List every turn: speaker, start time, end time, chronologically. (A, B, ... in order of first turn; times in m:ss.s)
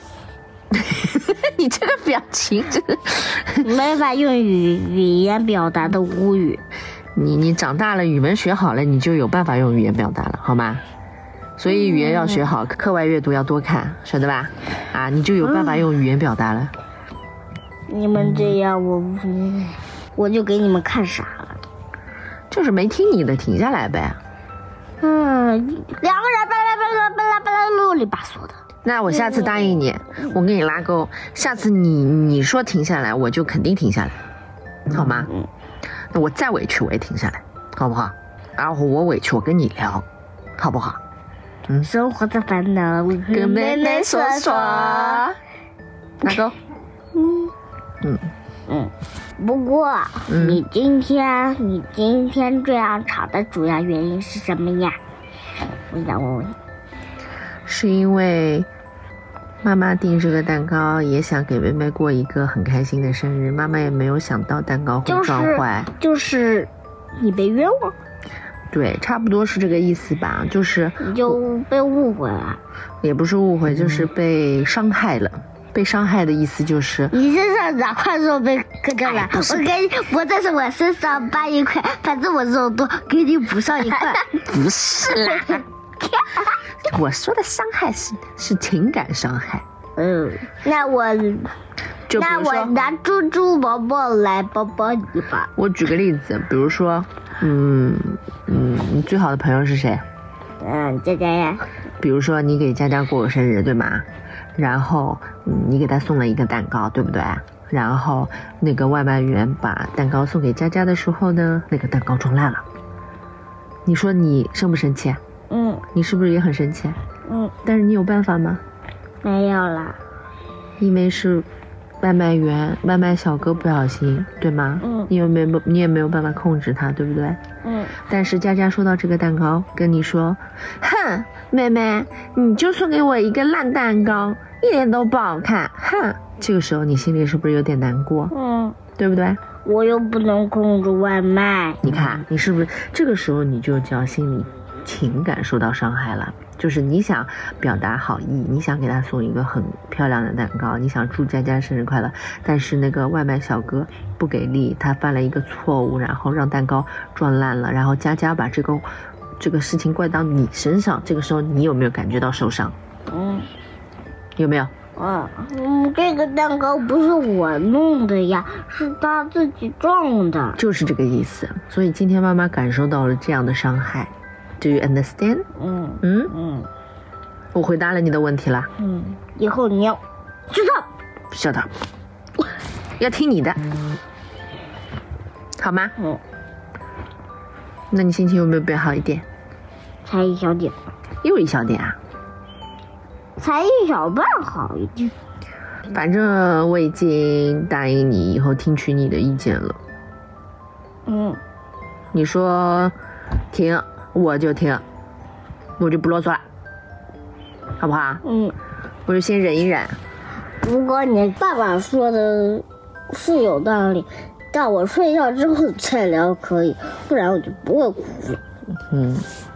0:00.7-0:03.7 A
0:03.6-0:06.6 B
0:07.2-0:10.8 A
0:11.6-0:16.7 A
0:11.7-0:12.5 B
0:15.4-0:15.8 B
0:17.9-0:21.6 B
0:22.5-0:24.2 A
0:25.0-0:29.8 B
0:28.8-0:34.2 A
0:34.9-0:35.3 A
0:36.1-0:40.0 A
0:40.6-0:41.0 A
0:41.8-0:45.2 B
0:43.3-0:45.4 A
0:46.2-0:46.6 A
0:47.2-0:47.5 B
0:48.0-0:48.3 A
0:48.7-0:55.0 B
0:50.3-0:50.6 A
0:55.9-0:56.6 B
0:57.7-0:58.7 A
0:59.6-1:05.9 A
1:05.1-1:07.9 B
1:08.7-1:11.4 A
1:11.0-1:12.6 B
1:13.0-1:17.1 A
1:17.1-1:24.3 B
1:19.1-1:19.7 A
1:24.2-1:25.6 A
1:25.1-1:25.6 B
1:26.2-1:26.5 B
1:26.8-1:29.6 A
1:30.0-1:31.5 B
1:32.1-1:32.7 A
1:32.1-1:35.5 B
1:35.6-1:40.0 A
1:40.6-1:41.7 B
1:42.0-1:52.6 A
1:53.9-1:55.2 A
1:55.5-1:55.8 B
1:55.9-1:57.0 A
1:57.3-1:57.6 B
1:57.6-1:58.6 A
1:59.2-2:00.0 B
2:00.8-2:01.4 A
2:02.0-2:07.4 A
2:04.8-2:05.1 B
2:07.6-2:08.0 B
2:08.1-2:18.3 A
2:18.3-2:18.8 B
2:19.0-2:19.4 A
2:19.6-2:21.8 B
2:21.8-2:38.9 A
2:39.4-2:42.8 A
2:43.1-2:43.5 B
2:44.4-2:44.7 A
2:45.0-2:50.6 B
2:50.6-2:55.5 A
2:55.6-2:56.7 B
2:56.0-2:56.3 A
2:57.5-2:58.7 A
2:58.8-3:00.9 B
3:01.3-3:01.7 A
3:03.0-3:03.6 A
3:05.6-3:05.9 A
3:07.9-3:09.2 A
3:10.0-3:10.8 B
3:11.2-3:12.0 A
3:13.4-3:15.1 B
3:15.9-3:19.8 A
3:21.1-3:21.4 B
3:22.1-3:22.9 A
3:23.5-3:24.8 A
3:25.8-3:26.4 A
3:27.8-3:28.2 A
3:28.2-3:28.6 B
3:29.1-3:30.0 A
3:30.6-3:38.4 B
3:38.9-3:39.2 A